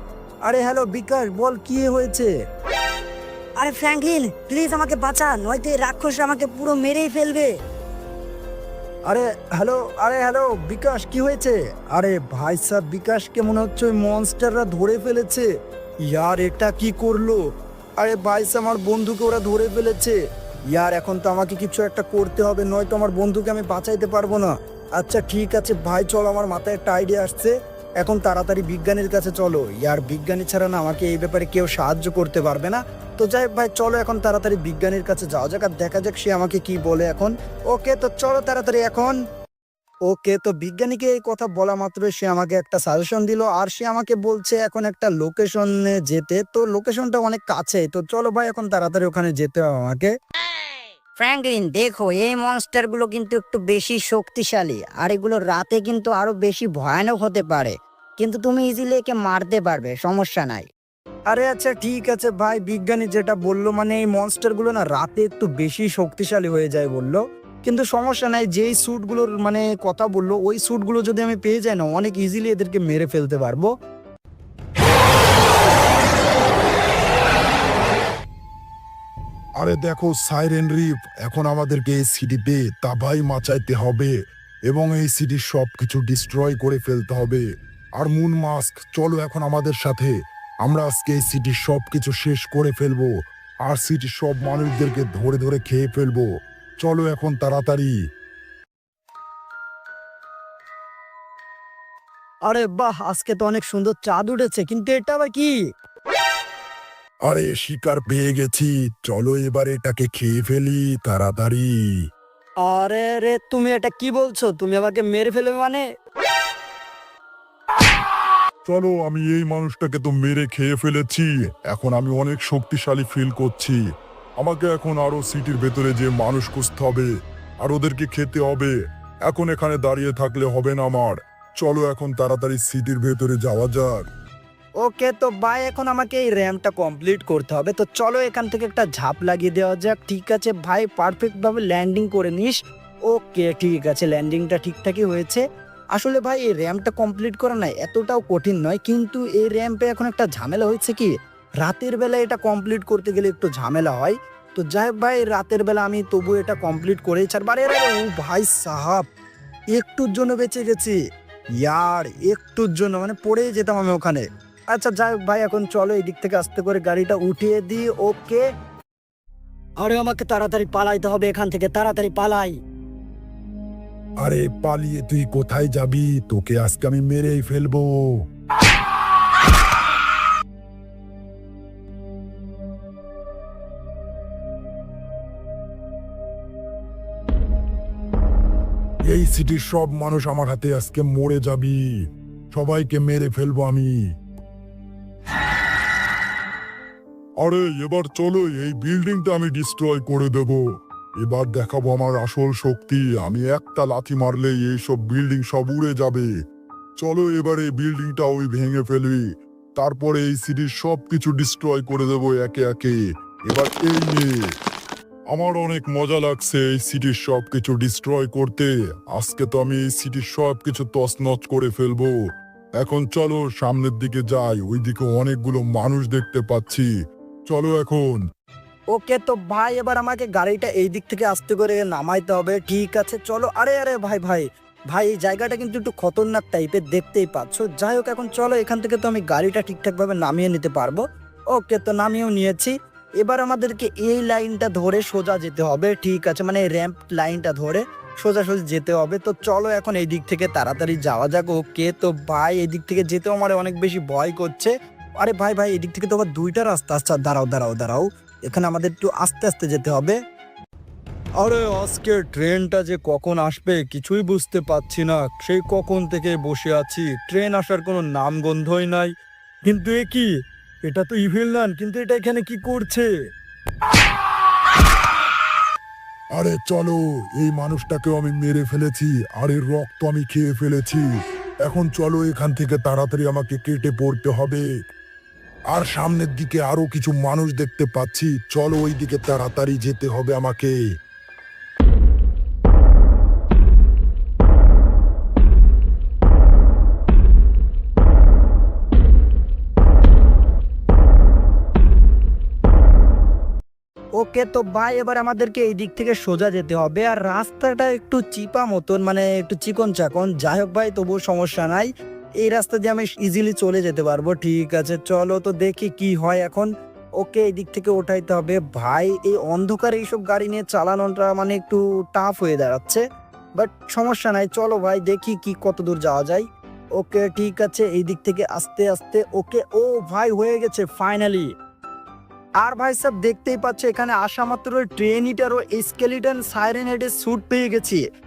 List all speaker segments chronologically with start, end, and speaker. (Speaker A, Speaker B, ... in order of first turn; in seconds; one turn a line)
Speaker A: 0.5-2.3
Speaker B: 3.6-7.6
Speaker A: 9.1-15.5
Speaker A: 16.1-17.4
Speaker A: 18.0-20.2
Speaker A: 20.7-39.2
Speaker A: 40.1-50.1
Speaker B: 51.2-60.7
Speaker A: 61.3-73.7
Speaker C: 79.6-84.2
Speaker C: 84.7-87.4
Speaker C: 88.0-93.1
Speaker C: 93.7-96.3
Speaker C: 96.8-97.9
Speaker A: 102.5-105.6
Speaker C: 107.2-111.8
Speaker A: 112.6-115.8
Speaker C: 118.7-123.8
Speaker C: 124.4-127.1
Speaker C: 127.6-128.7
Speaker C: 129.3-134.0
Speaker A: 134.8-145.4
Speaker A: 145.9-159.1
Speaker A: 159.7-161.0
Speaker A: 161.6-168.4
Speaker A: 169.8-172.6
Speaker C: 174.2-178.2
Speaker C: 189.1-191.9
Speaker C: 192.5-194.0
Speaker C: 197.4-200.6
Speaker C: 201.2-206.3
Speaker C: 207.0-209.2
Speaker C: 209.8-214.5
Speaker C: 215.3-222.1
Speaker C: 222.8-226.9
Speaker C: 227.5-228.2
Speaker A: 228.9-260.2
Speaker A: 261.4-269.1
Speaker A: 269.6-270.3
Speaker A: 270.9-273.1
Speaker C: 276.3-281.1
Speaker C: 281.6-284.7
Speaker C: 285.7-290.8
Speaker A: 304.2-311.9
Speaker A: 312.4-323.0
Speaker A: 323.6-326.4
Speaker A: 327.0-331.5
Speaker A: 332.6-338.0